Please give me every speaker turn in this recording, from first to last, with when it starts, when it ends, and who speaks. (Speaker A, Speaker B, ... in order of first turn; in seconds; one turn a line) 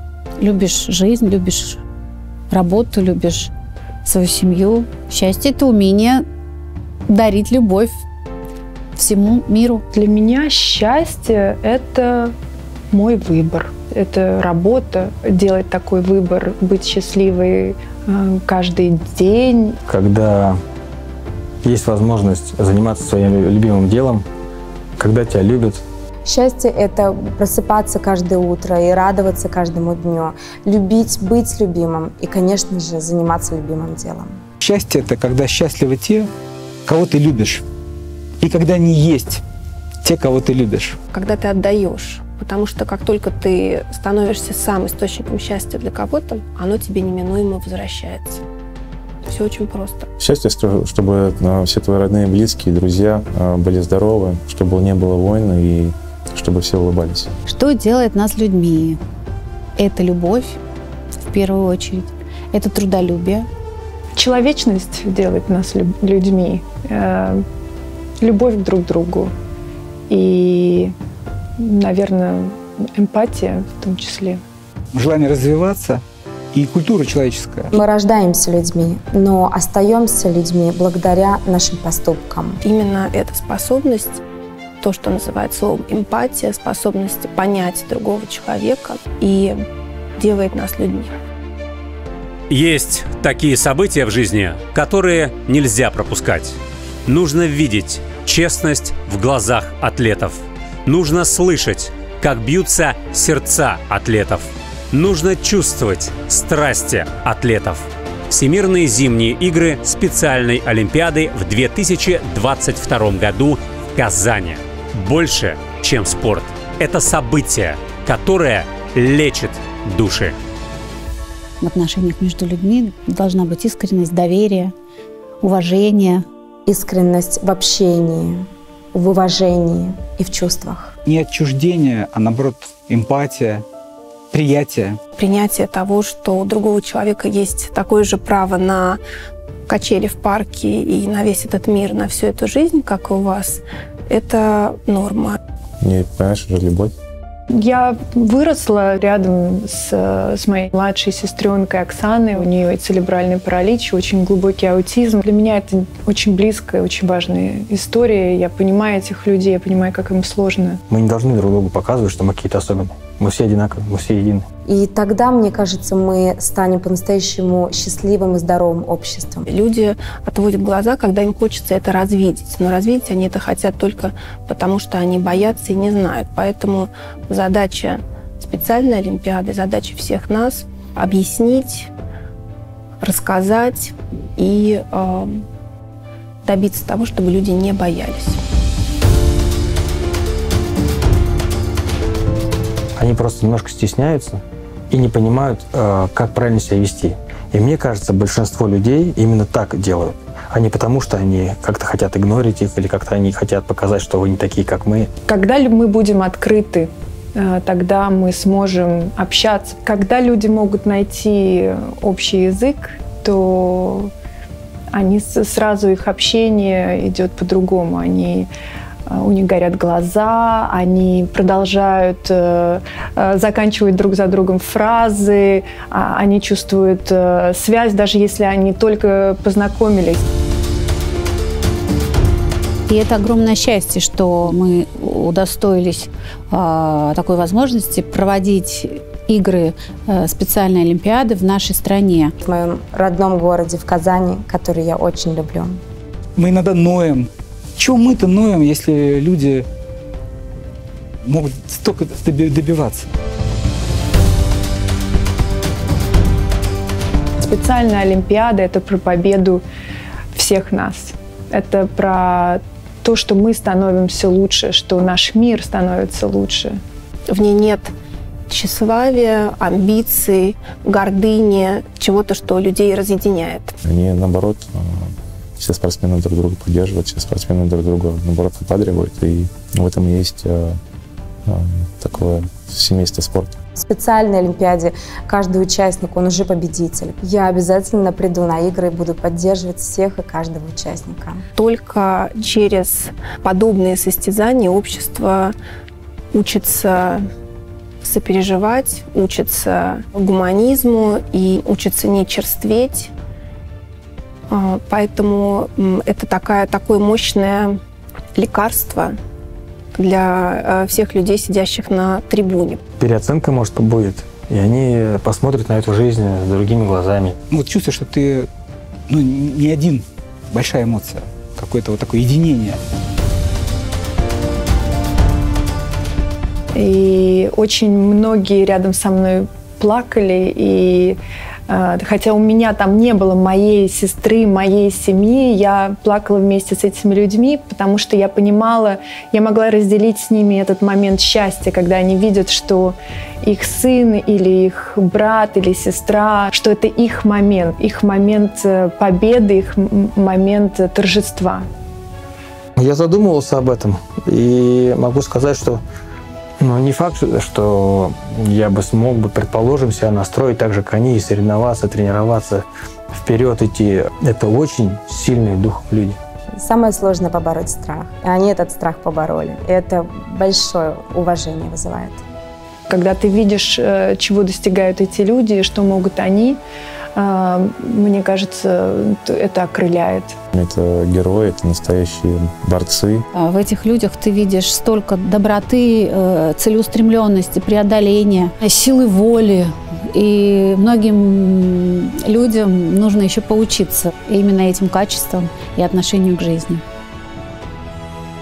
Speaker A: 0.4-1.8
Speaker A: 2.5-3.5
Speaker A: 4.0-6.2
Speaker A: 7.1-8.0
Speaker A: 8.9-9.8
Speaker B: 9.9-12.3
Speaker B: 12.9-19.7
Speaker C: 19.9-20.6
Speaker C: 21.6-24.2
Speaker C: 25.0-25.8
Speaker D: 26.2-34.4
Speaker E: 34.6-36.3
Speaker E: 36.9-37.6
Speaker E: 38.4-39.4
Speaker E: 40.0-41.0
Speaker F: 41.1-48.4
Speaker F: 49.2-50.0
Speaker G: 50.2-57.3
Speaker A: 57.5-59.0
Speaker A: 59.8-60.6
Speaker A: 61.2-63.5
Speaker B: 64.2-67.4
Speaker B: 68.2-69.3
Speaker B: 70.1-70.9
Speaker B: 71.6-74.4
Speaker E: 74.9-77.7
Speaker D: 77.7-82.6
Speaker F: 82.6-84.2
Speaker F: 84.8-89.6
Speaker F: 90.2-91.1
Speaker H: 92.5-120.3
Speaker A: 121.6-124.7
Speaker A: 125.4-126.2
Speaker D: 126.7-130.9
Speaker E: 131.1-133.7
Speaker E: 134.3-135.0
Speaker F: 135.2-139.0
Speaker F: 139.7-145.4
Speaker G: 145.8-146.9
Speaker B: 147.5-160.8
Speaker C: 160.9-164.4
Speaker D: 164.7-169.5
Speaker F: 169.5-181.9
Speaker F: 183.0-185.4
Speaker F: 186.4-188.4
Speaker C: 192.9-205.1
Speaker B: 205.2-214.1
Speaker B: 214.9-218.5
Speaker B: 219.1-230.2
Speaker A: 232.9-242.3
Speaker D: 242.4-245.8
Speaker E: 246.3-249.7
Speaker E: 251.2-253.1
Speaker B: 257.4-259.6
Speaker B: 260.3-266.8
Speaker F: 267.3-267.9
Speaker F: 268.5-273.7
Speaker G: 273.8-280.8
Speaker G: 281.5-283.6
Speaker D: 283.8-291.4
Speaker F: 291.6-295.6
Speaker F: 296.3-297.3
Speaker F: 298.0-303.1
Speaker F: 304.5-307.8
Speaker F: 308.4-309.2
Speaker F: 309.9-312.8
Speaker C: 313.0-317.4
Speaker E: 317.5-318.5
Speaker E: 319.1-322.8
Speaker B: 326.7-351.7
Speaker C: 352.8-355.8
Speaker C: 356.6-366.2
Speaker D: 366.6-372.2
Speaker B: 372.9-376.6
Speaker B: 377.1-380.4
Speaker G: 380.5-383.2
Speaker A: 383.3-396.8